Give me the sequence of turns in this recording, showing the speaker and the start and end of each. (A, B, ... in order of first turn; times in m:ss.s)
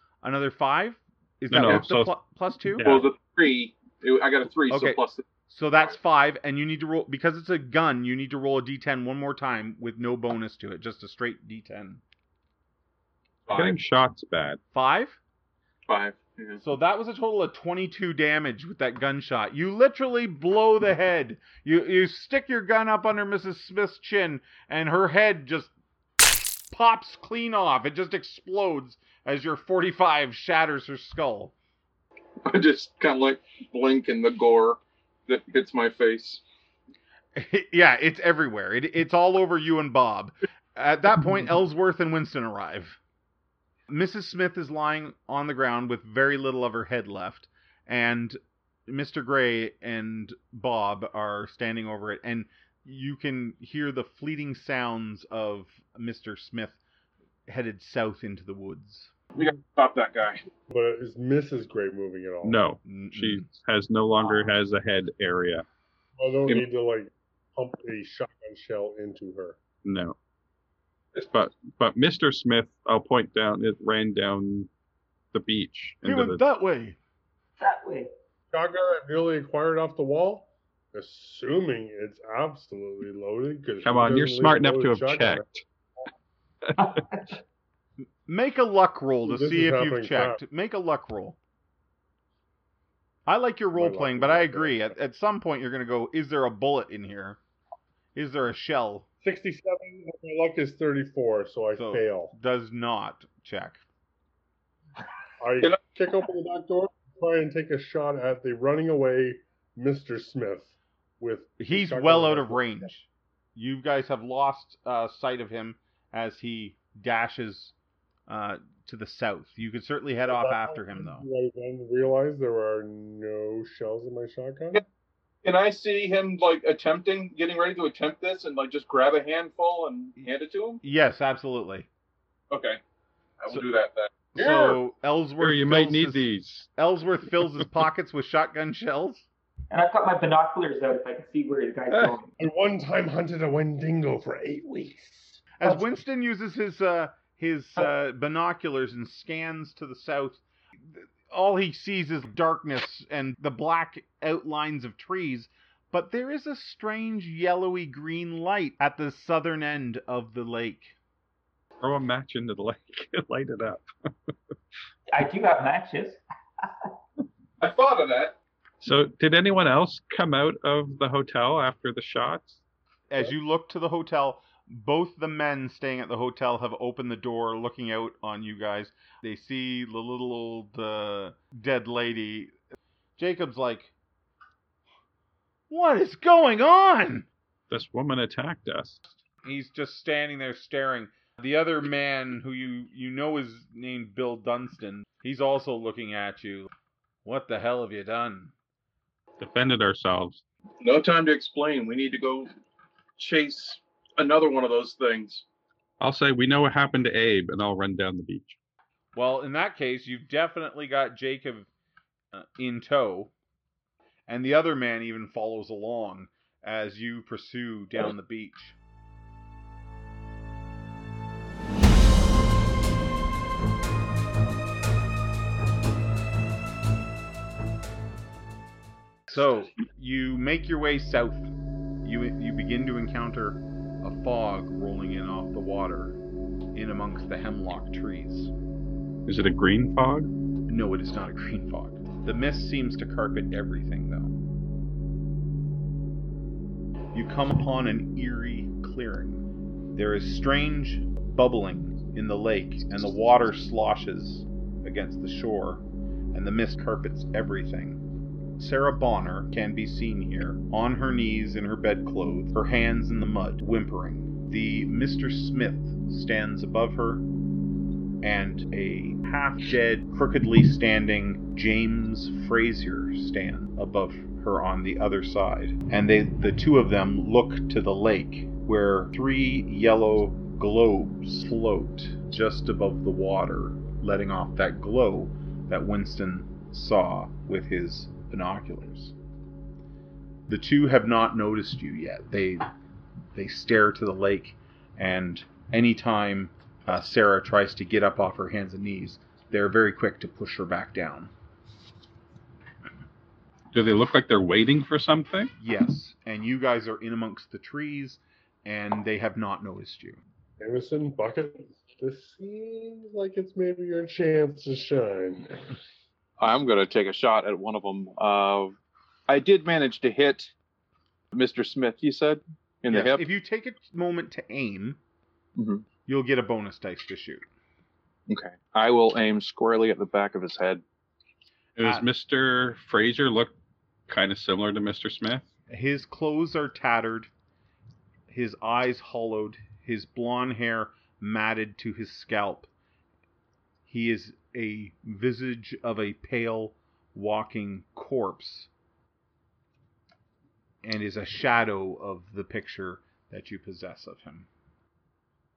0:00.2-0:02.9 A
0:01.5-0:02.1 B
0:01.6-0:01.8 C
0:02.8-0:03.0 B
0:02.8-0:05.3 C
0:04.7-0:12.0 A
0:13.4-0:13.8 C
0:13.5-0:14.6 B
0:14.7-0:15.2 A
0:15.9-0:16.6 C
0:16.6-0:25.7 A
0:26.7-0:31.5 A
0:32.4-0:36.4 C
0:37.4-0:43.0 A
0:43.9-0:56.8 A
0:57.5-0:59.1 A
0:59.4-1:00.4 C
1:00.7-1:02.6 D
1:02.4-1:05.6 B
1:02.8-1:03.5 A
1:06.2-1:09.6 D
1:09.8-1:10.2 B
1:11.1-1:14.7 B
1:15.3-1:16.4 B
1:16.0-1:17.0 A
1:17.6-1:18.1 E
1:18.5-1:25.4 D
1:23.8-1:25.6 B
1:26.8-1:27.3 E
1:28.2-1:31.4 A
1:29.2-1:30.4 D
1:33.3-1:37.4 A
1:33.8-1:34.9 D
1:38.1-1:39.1 A
1:39.2-1:42.3 D
1:41.8-1:43.8 A
1:45.4-1:52.8 D
1:51.6-1:57.7 A
1:58.3-2:01.2 A
2:00.3-2:04.8 D
2:05.4-2:10.8 C
2:10.8-2:11.9 A
2:12.5-2:12.8 C
2:13.4-2:14.8 C
2:14.3-2:19.3 A
2:15.4-2:16.7 B
2:19.7-2:22.3 E
2:22.4-2:25.5 D
2:25.6-2:40.9 A
2:41.8-2:43.8 B
2:45.1-2:46.2 E
2:47.6-2:48.4 C
2:48.8-2:52.6 B
2:53.1-3:02.5 A
3:03.2-3:03.9 A
3:05.7-3:07.3 A
3:07.7-3:09.0 B
3:09.4-3:16.7 A
3:17.2-3:18.5 A
3:19.4-3:20.4 B
3:20.8-3:22.5 C
3:23.2-3:25.4 C
3:26.0-3:28.6 B
3:29.1-3:31.7 A
3:32.3-3:33.3 A
3:34.3-3:38.8 A
3:49.3-3:51.5 A
3:52.0-3:56.2 A
3:56.7-3:58.5 A
3:59.2-4:00.3 B
4:00.7-4:04.3 A
4:07.1-4:09.4 A
4:09.9-4:18.0 A
4:18.6-4:27.2 A
4:28.2-4:49.1 A
4:50.5-4:52.7 A
4:53.3-5:01.3 A
5:03.7-5:05.5 B
5:05.6-5:10.2 A
5:10.6-5:15.7 D
5:16.4-5:18.8 C
5:19.3-5:20.5 C
5:21.3-5:23.2 C
5:22.9-5:25.0 A
5:25.6-5:25.9 C
5:26.0-5:27.4 A
5:28.3-5:30.8 C
5:31.8-5:33.5 B
5:31.8-5:32.1 A
5:34.1-5:35.4 B
5:35.7-5:37.3 A
5:38.3-5:42.7 A
5:43.9-5:48.7 A
5:50.8-5:54.5 A